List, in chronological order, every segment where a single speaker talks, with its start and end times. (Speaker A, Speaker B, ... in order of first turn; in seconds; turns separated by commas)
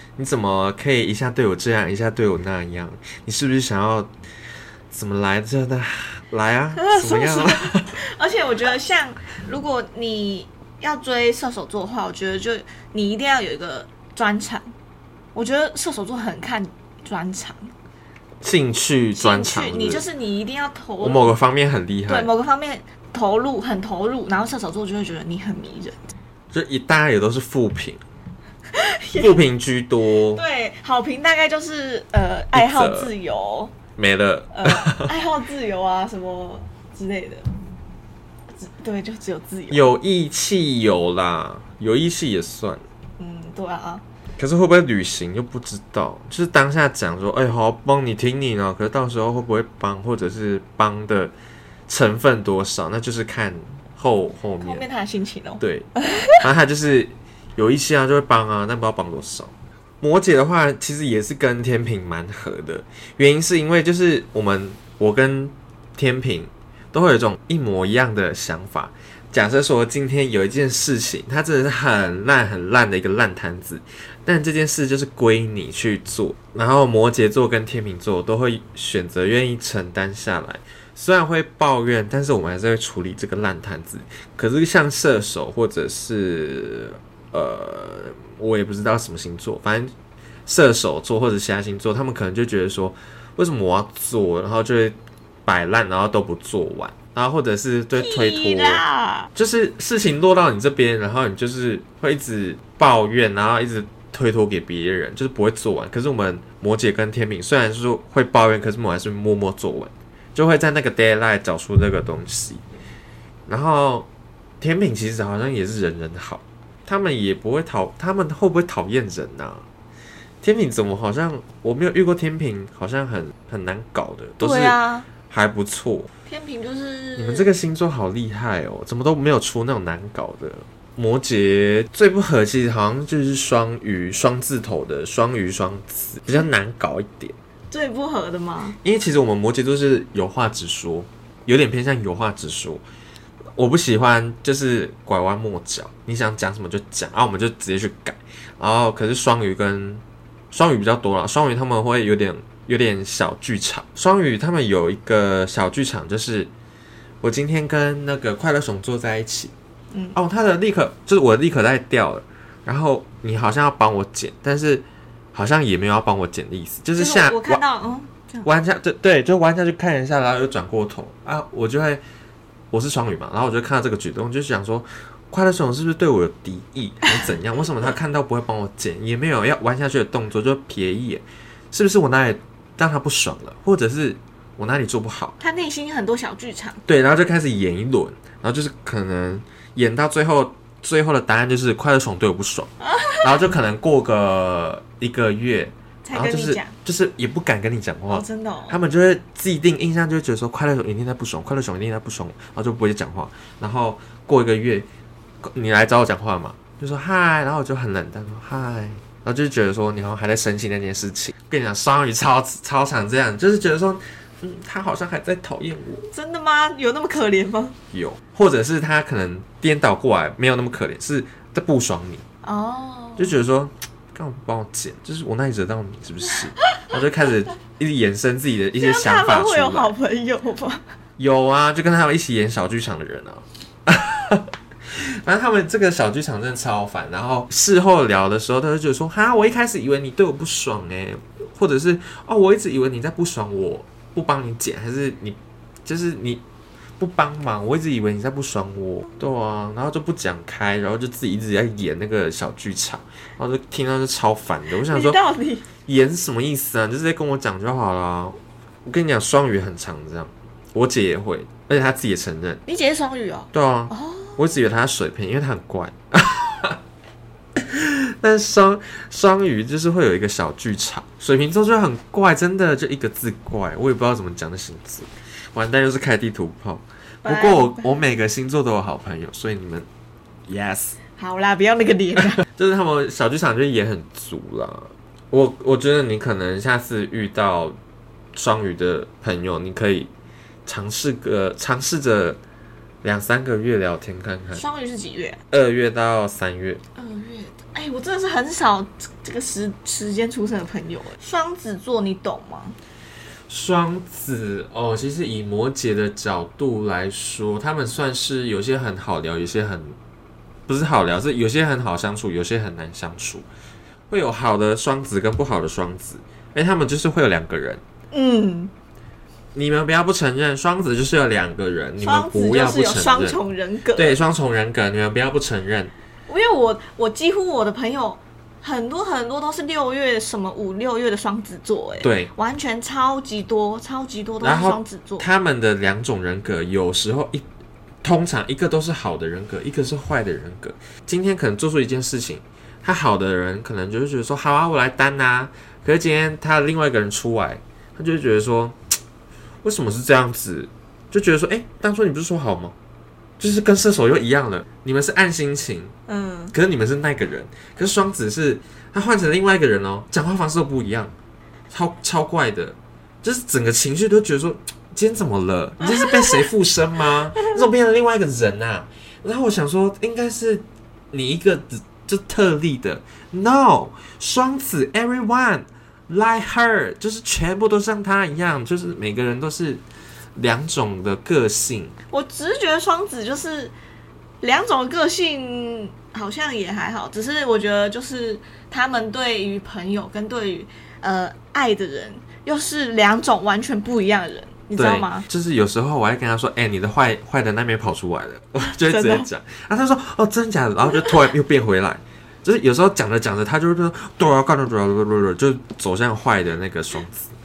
Speaker A: 0.2-4.1, Speaker A: 4.9-8.0, Speaker B: 6.8-14.7, Speaker B: 15.3-17.7, Speaker A: 18.4-20.1, Speaker B: 19.1-21.4, Speaker A: 21.0-22.3, Speaker B: 22.1-26.1, Speaker A: 26.5-28.0, Speaker B: 28.7-29.4, Speaker A: 29.2-30.4, Speaker B: 30.3-33.7, Speaker A: 32.5-33.1, Speaker A: 34.0-35.1, Speaker B: 34.5-37.5, Speaker B: 38.6-39.9, Speaker A: 39.7-42.8, Speaker B: 43.2-44.0, Speaker A: 44.4-51.3, Speaker A: 51.9-54.8, Speaker B: 54.6-56.4, Speaker A: 55.6-55.9, Speaker A: 56.4-89.9, Speaker A: 90.5-98.8, Speaker B: 98.0-99.3, Speaker A: 99.3-112.6, Speaker A: 113.5-114.1, Speaker A: 114.6-119.7, Speaker A: 120.4-124.8, Speaker B: 124.4-125.1, Speaker A: 125.3-126.1, Speaker B: 126.3-127.5, Speaker A: 127.2-137.4, Speaker B: 137.7-138.8, Speaker A: 138.8-142.8, Speaker A: 143.6-156.5, Speaker A: 157.2-159.5, Speaker B: 159.9-160.2, Speaker A: 160.2-167.6, Speaker B: 167.0-168.5, Speaker A: 168.4-172.0, Speaker A: 172.7-185.4, Speaker B: 185.4-186.8, Speaker A: 186.9-204.9, Speaker B: 192.8-193.3, Speaker B: 196.0-196.8, Speaker B: 198.1-198.8, Speaker A: 205.4-216.1, Speaker B: 216.1-217.8, Speaker A: 217.9-222.2, Speaker B: 222.4-223.3, Speaker A: 223.2-229.9, Speaker B: 226.6-226.9, Speaker B: 228.8-230.8, Speaker A: 231.2-246.4, Speaker A: 247.0-255.2, Speaker B: 254.9-255.7, Speaker A: 255.9-262.6, Speaker B: 262.7-264.4, Speaker A: 263.5-266.8, Speaker A: 267.6-279.9, Speaker B: 277.2-277.9, Speaker A: 280.5-281.0, Speaker B: 281.2-282.4, Speaker A: 282.4-287.8, Speaker A: 288.4-290.1, Speaker A: 290.7-292.4, Speaker A: 293.0-294.6, Speaker B: 294.5-295.4, Speaker A: 295.5-296.8, Speaker B: 297.0-302.8, Speaker A: 303.5-310.0, Speaker A: 310.7-313.5, Speaker A: 314.1-317.8, Speaker B: 318.1-318.7, Speaker A: 319.6-323.4, Speaker B: 322.0-324.2, Speaker A: 323.9-325.9, Speaker B: 326.3-335.3, Speaker A: 332.0-332.3, Speaker A: 334.4-337.4, Speaker A: 338.0-348.8, Speaker A: 349.6-352.8, Speaker A: 353.4-355.9, Speaker B: 356.1-356.5, Speaker A: 356.5-361.1, Speaker A: 361.7-379.8, Speaker B: 365.9-366.4, Speaker A: 380.4-381.9, Speaker B: 382.1-383.7, Speaker B: 384.4-395.3, Speaker A: 394.8-407.3, Speaker B: 398.6-399.3